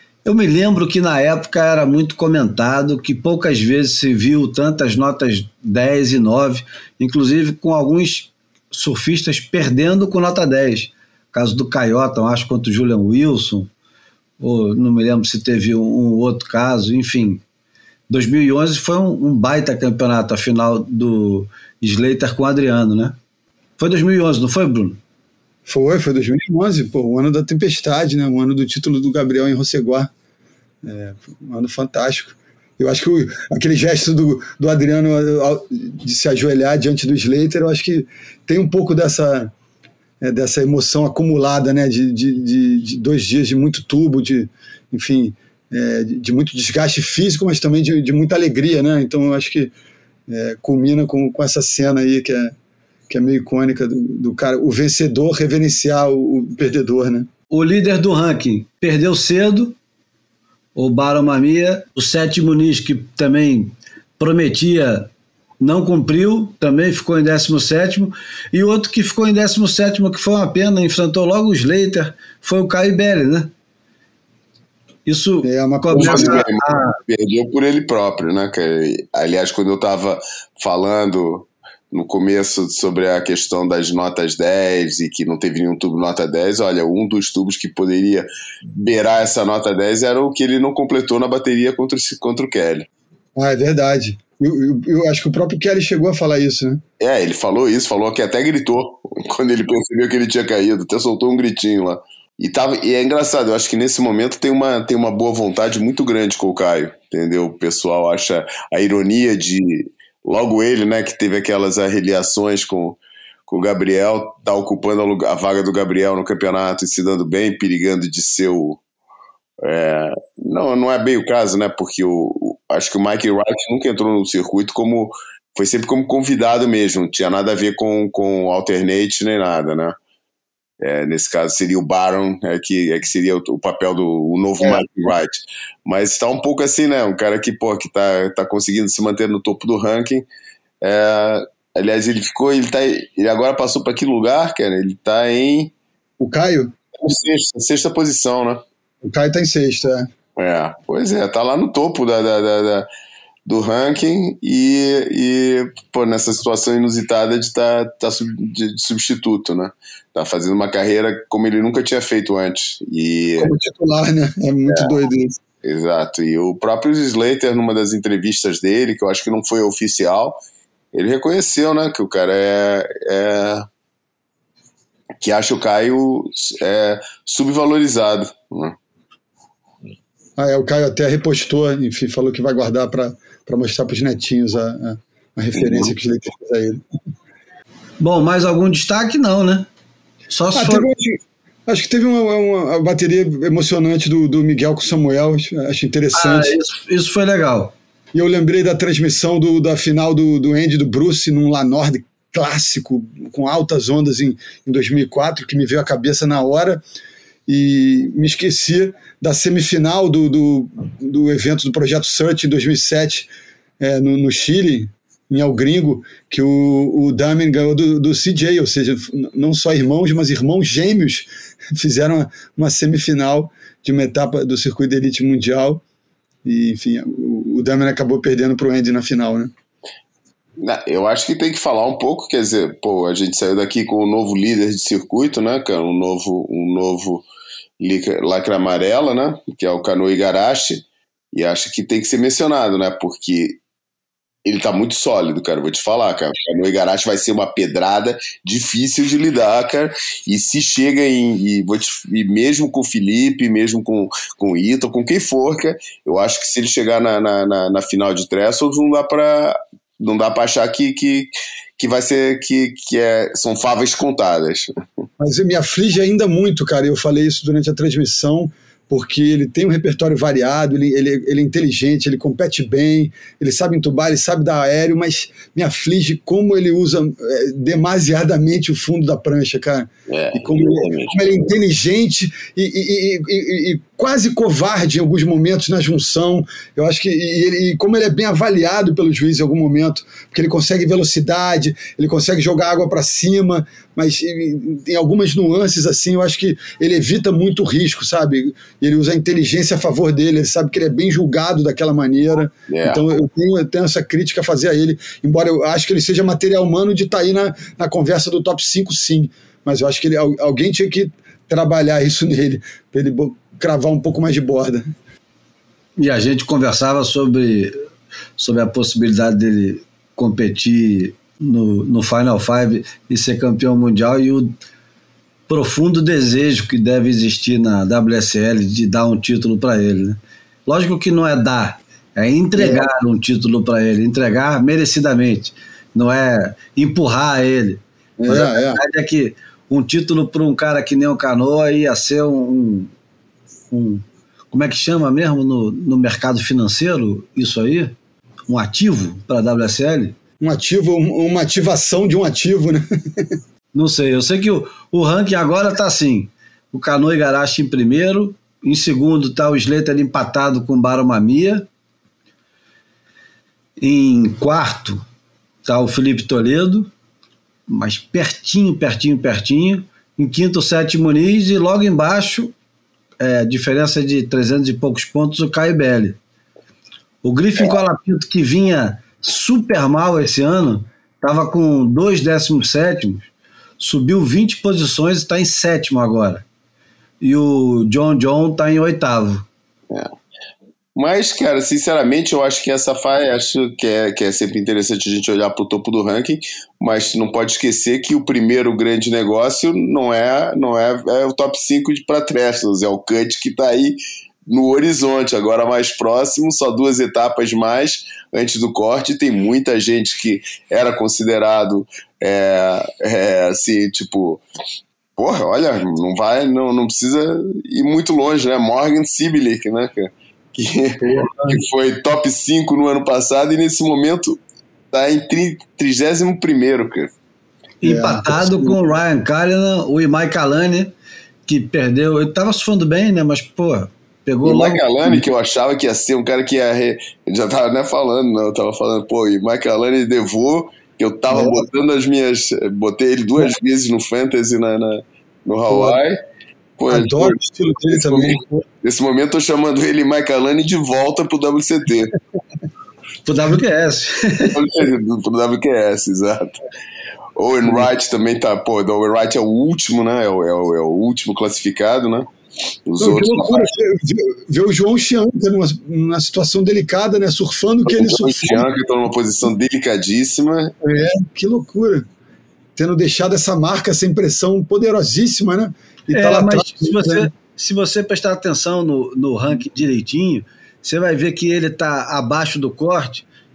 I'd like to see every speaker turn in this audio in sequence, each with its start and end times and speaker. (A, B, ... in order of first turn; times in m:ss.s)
0:00.2-0:13.7 A
0:14.4-0:17.4 A
0:18.1-0:23.2 A
0:23.8-0:25.0 A
0:25.6-0:30.1 B
0:30.8-0:39.5 B
0:40.2-0:49.7 B
0:50.3-0:52.5 B
0:53.1-0:57.3 B
0:57.5-0:59.8 A
1:00.8-1:13.5 A
1:15.0-1:17.0 A
1:15.4-1:16.4 B
1:15.9-1:32.9 C
1:33.4-1:36.8 B
1:37.0-1:58.8 C
1:59.6-2:10.0 C
2:10.8-2:20.3 C
2:20.8-2:25.7 C
2:26.2-2:26.7 B
2:27.0-2:28.6 C
2:29.0-2:30.1 B
2:30.4-2:32.8 C
2:33.4-2:43.5 C
2:43.4-2:45.4 B
2:45.6-2:50.4 C
2:50.9-2:53.6 C
2:55.2-2:58.8 C
3:00.4-3:06.8 B
3:05.5-3:05.9 C
3:08.0-3:09.7 A
3:10.3-3:10.9 A
3:10.5-3:16.6 B
3:16.1-3:17.7 A
3:18.1-3:26.8 B
3:27.5-3:45.8 B
3:46.4-3:49.5 B
3:50.6-3:57.2 C
3:57.8-4:03.6 C
4:04.4-4:24.7 C
4:25.2-5:14.9 B
4:40.1-4:41.3 C
5:02.7-5:03.0 C
5:16.0-5:17.7 A
5:18.4-5:24.5 A
5:25.5-5:42.9 A
5:32.6-5:32.9 B
5:38.2-5:38.8 B
5:43.7-5:47.9 A
5:48.5-5:50.2 A
5:50.4-5:53.4 B
5:53.7-6:01.7 A
6:03.8-6:05.0 A
6:05.6-6:06.9 A
6:07.7-6:12.5 A
6:13.2-6:16.2 A
6:17.2-6:23.3 A
6:23.8-6:26.4 A
6:27.2-6:29.4 A
6:30.9-6:54.4 C
6:55.2-7:04.4 C
7:01.0-7:01.6 B
7:04.9-7:07.1 C
7:07.8-7:10.9 A
7:07.8-7:08.8 B
7:11.5-7:14.8 A
7:14.4-7:26.2 C
7:21.3-7:21.6 B
7:25.7-7:26.0 B
7:26.8-7:32.2 C
7:26.9-7:28.6 B
7:33.2-7:34.5 A
7:34.5-7:36.6 C
7:37.4-7:42.3 C
7:42.9-7:43.7 C
7:43.0-7:48.7 B
7:47.9-7:50.7 C
7:50.8-7:52.1 B
7:52.8-7:57.3 B
7:56.1-8:03.2 A